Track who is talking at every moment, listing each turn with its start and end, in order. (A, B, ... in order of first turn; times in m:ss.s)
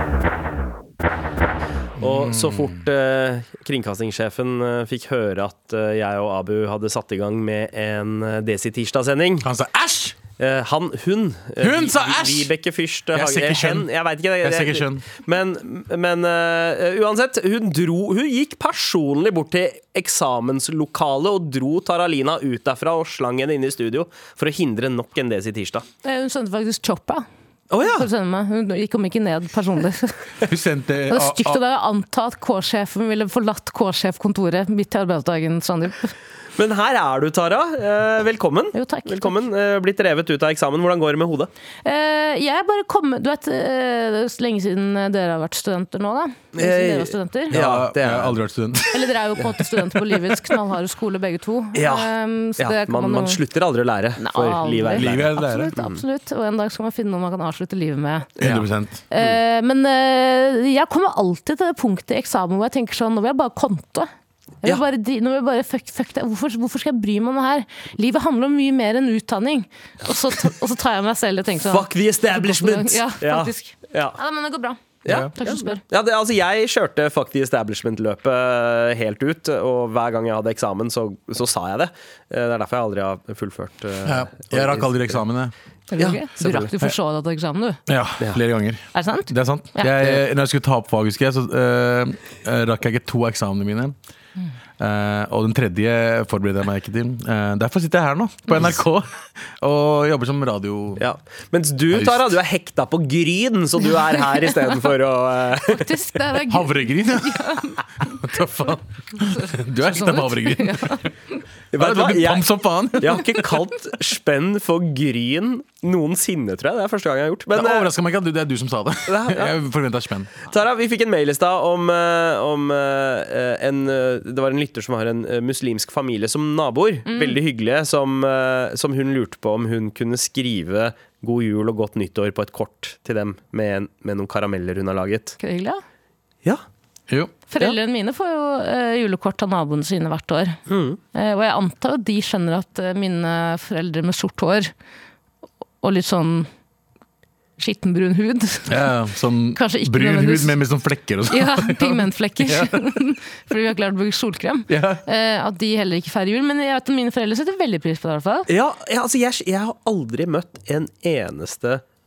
0:02.0-0:02.8 A
0:02.0-0:09.4 B
0:09.4-0:10.2 A
0:10.4-0:25.8 B
0:11.6-0:12.5 A
0:13.1-0:15.0 A
0:26.0-0:27.2 C
0:27.7-0:28.1 B
0:27.8-0:30.2 C
0:30.4-0:31.6 A
0:31.1-0:36.1 C
0:36.6-0:41.5 B
0:38.7-0:39.4 C
0:41.8-0:47.5 C
0:46.5-0:48.4 B
0:47.5-0:49.1 A
0:48.9-0:53.4 C
0:51.7-0:56.0 B
0:54.2-0:58.3 C
0:54.9-0:55.7 A
0:58.4-0:58.6 B
0:58.4-0:59.0 A
0:59.1-1:04.1 C
1:04.6-1:15.8 C
1:11.6-1:14.2 B
1:15.0-1:25.2 B
1:24.0-1:25.5 A
1:25.9-1:27.8 C
1:26.0-1:26.7 B
1:27.9-1:33.9 A
1:28.9-1:29.9 C
1:34.8-1:41.0 A
1:41.0-1:45.9 B
1:41.9-1:42.3 A
1:45.6-1:48.1 C
1:46.5-1:51.1 A
1:49.3-1:51.1 C
1:51.7-1:57.9 B
1:51.8-1:53.6 A
1:57.5-2:00.3 A
1:59.1-1:59.6 B
2:00.4-2:15.4 B
2:07.1-2:07.4 C
2:15.4-2:15.8 C
2:17.1-2:17.3 A
2:17.5-2:20.6 C
2:20.7-2:21.0 B
2:21.1-2:24.7 C
2:25.8-2:26.5 C
2:27.6-2:28.9 C
2:28.7-2:32.8 A
2:29.5-2:30.5 C
2:31.3-2:38.5 C
2:34.7-2:35.0 A
2:38.5-2:41.8 B